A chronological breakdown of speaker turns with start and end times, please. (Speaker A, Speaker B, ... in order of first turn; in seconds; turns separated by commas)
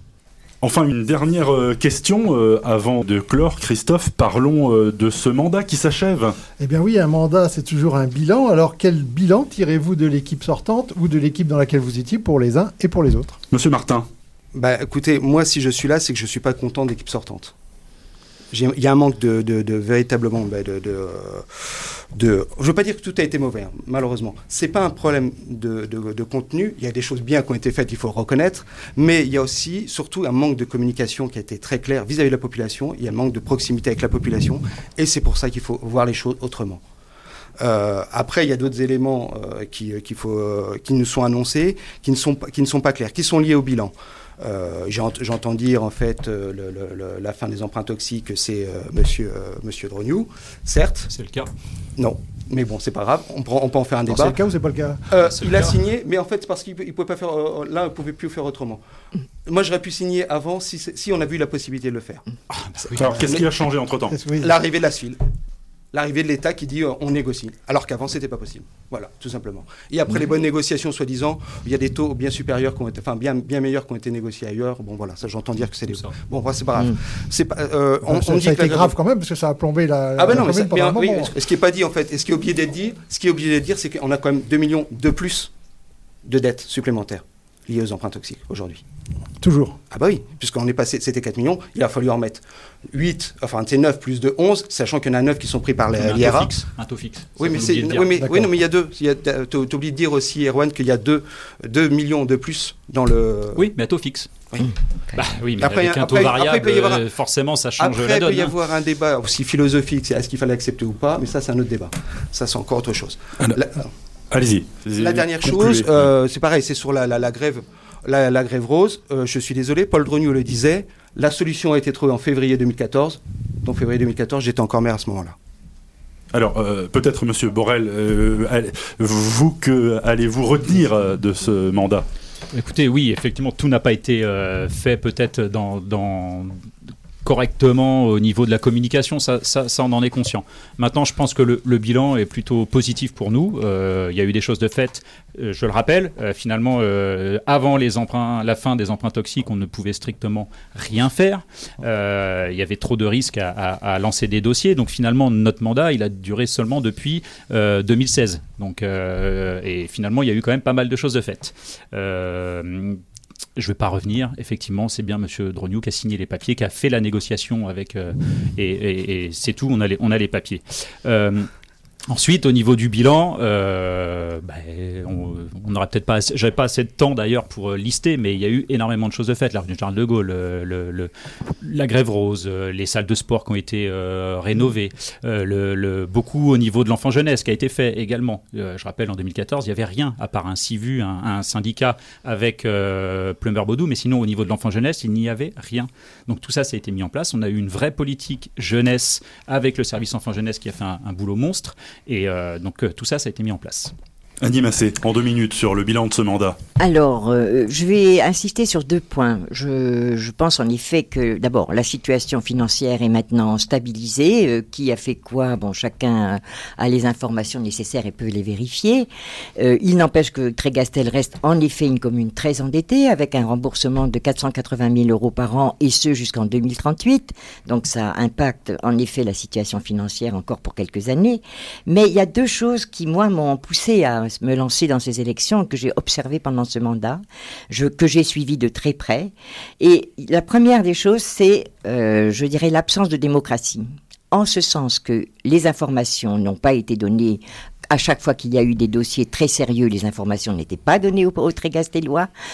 Speaker A: 0.6-6.4, Speaker B: 6.6-13.4, Speaker A: 13.5-14.1, Speaker C: 14.5-17.5, Speaker C: 18.5-36.8, Speaker C: 37.6-51.1, Speaker D: 51.1-51.5, Speaker C: 52.0-54.4, Speaker B: 54.1-55.2, Speaker C: 55.1-58.8, Speaker C: 59.5-62.2, Speaker D: 62.5-63.0, Speaker A: 63.0-64.2, Speaker C: 63.0-63.5, Speaker B: 64.1-64.5, Speaker C: 64.4-65.2, Speaker C: 65.9-78.9, Speaker B: 78.0-81.3, Speaker C: 80.2-85.5, Speaker C: 86.2-88.8, Speaker B: 89.4-89.8, Speaker C: 89.9-96.5, Speaker D: 96.0-98.2, Speaker C: 97.4-103.6, Speaker B: 98.2-98.5, Speaker D: 103.5-104.3, Speaker D: 105.1-108.5, Speaker C: 105.6-107.0, Speaker C: 107.8-113.9, Speaker A: 114.3-116.0, Speaker C: 115.0-125.3, Speaker A: 126.3-132.1, Speaker D: 132.5-136.6, Speaker D: 137.2-163.0, Speaker D: 163.6-171.5, Speaker D: 172.1-203.9, Speaker A: 204.4-206.6, Speaker E: 206.8-252.3